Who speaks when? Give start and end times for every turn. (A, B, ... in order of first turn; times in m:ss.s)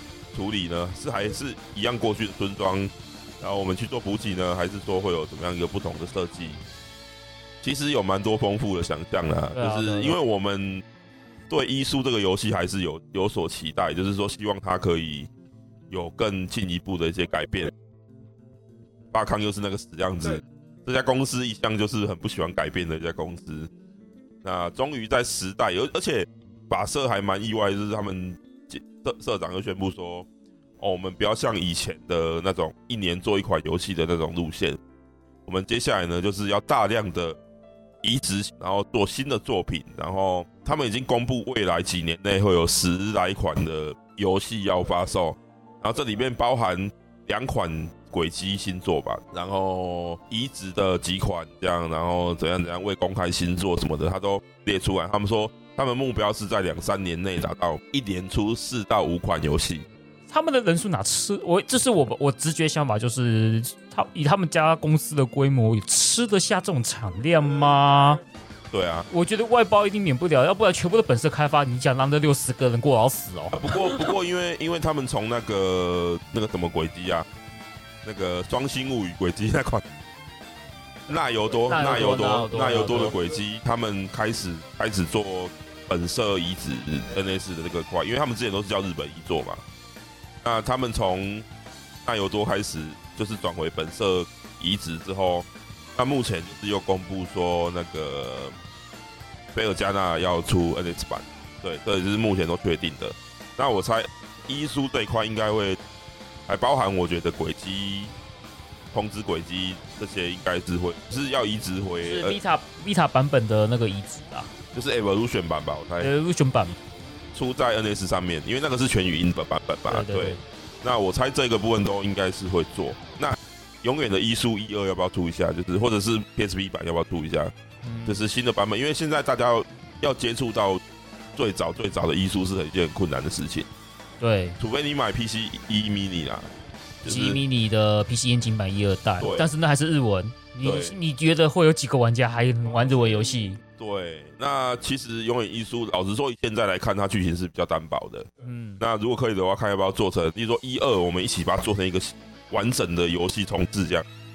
0:00.3-0:06.6 A
0:07.6-0:10.8 A
0:09.5-0:10.2 B
0:11.5-0:15.3 A
0:15.9-0:17.7 A
0:19.1-0:23.7 A
0:24.4-0:30.3 A
0:30.8-0:34.8 A
0:35.4-0:37.4 A
0:38.0-0:59.8 A
1:00.3-1:08.2 B
1:08.7-1:09.1 A
1:09.1-1:14.1 B
1:13.5-1:17.2 A
1:18.0-1:19.8 A
1:21.1-1:29.6 A
1:21.7-1:23.2 B
1:30.4-1:31.4 A
1:32.0-1:38.5 A
1:39.5-1:45.8 A
1:46.5-1:48.1 A
1:48.9-1:52.4 A
1:52.0-1:54.5 B
1:54.7-1:56.1 A
1:56.0-1:56.8 B
1:57.3-2:07.5 A
1:59.9-2:00.4 B
2:07.8-2:08.2 B
2:08.1-2:10.8 A
2:11.3-2:13.7 A
2:14.2-2:14.6 B
2:14.6-2:16.5 A
2:17.0-2:17.4 A
2:17.0-2:23.6 B
2:19.2-2:19.5 A
2:20.6-2:20.9 A
2:23.8-2:28.3 A
2:28.4-2:28.8 B
2:28.8-2:34.0 A